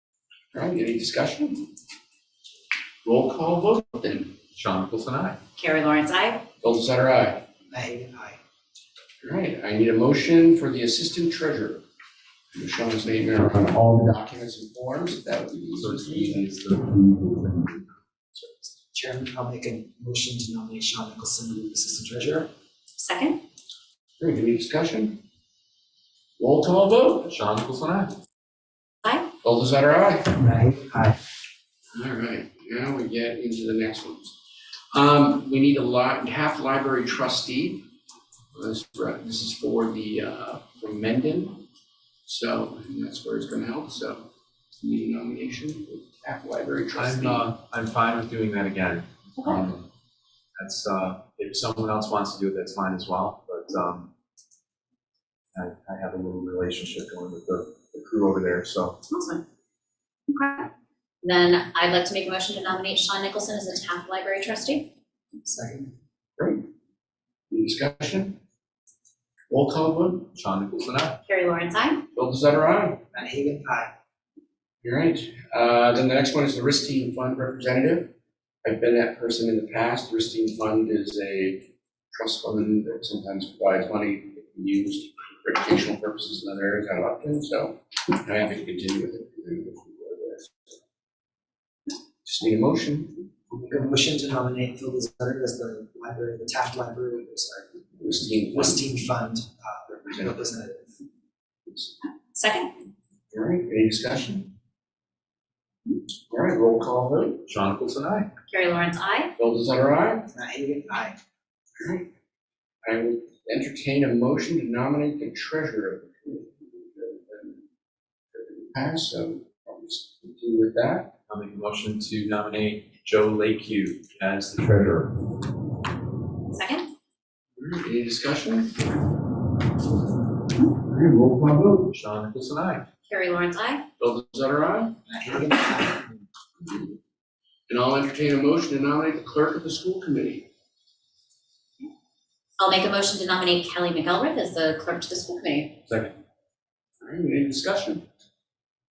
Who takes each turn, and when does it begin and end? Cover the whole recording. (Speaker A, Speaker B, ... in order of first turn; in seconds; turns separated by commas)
Speaker A: 0.5-1.7, Speaker A: 3.0-4.4, Speaker B: 4.5-5.4, Speaker C: 5.6-6.5, Speaker A: 6.6-7.5, Speaker D: 7.7-8.4, Speaker A: 9.2-11.8, Speaker A: 12.5-16.5, Speaker B: 15.8-17.7, Speaker D: 18.9-22.5, Speaker C: 23.0-23.4, Speaker A: 24.2-25.2, Speaker A: 26.4-27.3, Speaker B: 27.3-28.1, Speaker C: 29.0-29.3, Speaker A: 29.4-30.4, Speaker D: 30.4-31.2, Speaker A: 31.9-34.4, Speaker A: 34.9-37.9, Speaker A: 38.5-41.6, Speaker A: 42.3-44.3, Speaker A: 44.8-47.5, Speaker B: 46.9-49.9, Speaker B: 50.6-54.1, Speaker B: 55.5-59.0, Speaker C: 59.1-59.4, Speaker C: 60.3-60.7, Speaker C: 61.2-64.9, Speaker D: 65.5-65.9, Speaker A: 66.4-66.7, Speaker A: 67.5-68.4, Speaker A: 69.5-70.3, Speaker B: 70.3-71.2, Speaker C: 71.2-72.1, Speaker A: 72.1-73.0, Speaker D: 73.1-73.9, Speaker A: 74.8-78.1, Speaker A: 78.6-90.7, Speaker A: 92.2-93.2, Speaker D: 93.5-97.8, Speaker A: 98.0-98.9, Speaker D: 98.5-100.9, Speaker C: 102.3-102.7, Speaker A: 103.3-104.5, Speaker A: 106.3-107.4, Speaker B: 107.5-108.3, Speaker C: 108.5-109.3, Speaker A: 109.4-110.3, Speaker D: 110.3-111.2, Speaker A: 111.8-112.1, Speaker A: 112.8-117.6, Speaker A: 118.3-121.1, Speaker B: 121.3-125.1, Speaker C: 126.5-126.9, Speaker A: 127.6-128.8, Speaker A: 130.8-131.9, Speaker B: 131.9-132.9, Speaker C: 133.1-133.9, Speaker A: 134.0-135.0, Speaker D: 135.1-136.2, Speaker A: 137.7-140.5, Speaker C: 142.6-145.8, Speaker B: 145.9-146.1, Speaker A: 147.0-148.0